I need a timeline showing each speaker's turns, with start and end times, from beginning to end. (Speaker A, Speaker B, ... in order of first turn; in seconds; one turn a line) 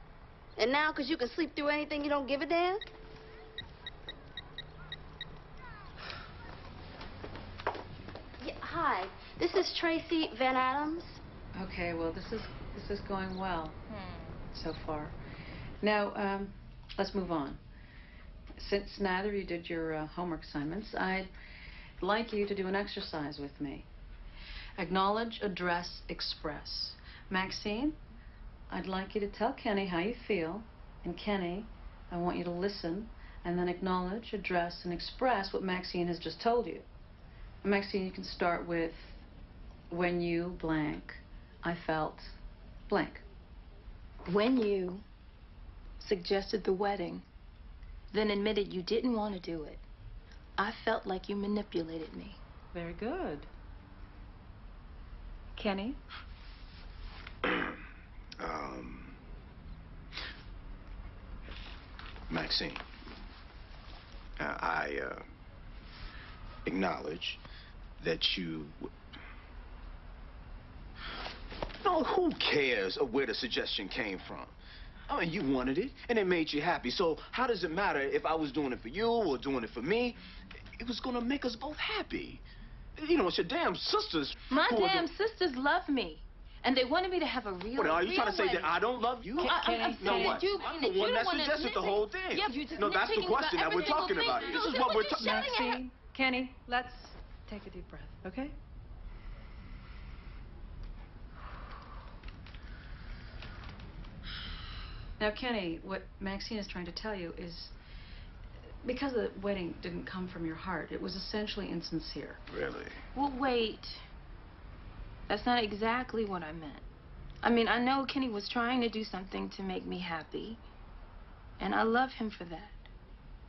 Speaker A: 0.6-2.9
Speaker A: 8.4-11.2
Speaker B: 11.5-13.8
Speaker C: 13.9-14.4
Speaker B: 14.5-15.2
Speaker B: 15.8-17.6
Speaker B: 18.6-21.3
Speaker B: 22.0-23.9
Speaker B: 24.8-28.0
Speaker B: 28.7-36.9
Speaker B: 37.6-39.2
Speaker B: 39.9-42.3
Speaker B: 42.9-43.2
Speaker C: 44.2-45.0
Speaker C: 46.0-47.2
Speaker C: 48.1-49.8
Speaker C: 50.6-52.4
Speaker B: 52.7-53.5
Speaker B: 55.5-56.0
Speaker D: 57.4-57.8
Speaker D: 58.4-59.2
Speaker D: 62.3-62.8
Speaker D: 64.4-65.2
Speaker D: 66.7-67.4
Speaker D: 68.0-68.9
Speaker D: 71.8-74.5
Speaker D: 75.1-80.2
Speaker D: 80.8-82.4
Speaker D: 83.0-85.1
Speaker C: 84.5-88.7
Speaker D: 87.8-95.6
Speaker C: 89.3-95.8
Speaker B: 89.4-90.4
Speaker B: 95.2-98.5
Speaker B: 105.2-107.7
Speaker B: 108.8-112.4
Speaker D: 112.5-113.0
Speaker C: 113.1-114.0
Speaker C: 115.3-116.8
Speaker C: 117.4-120.6
Speaker C: 121.6-122.9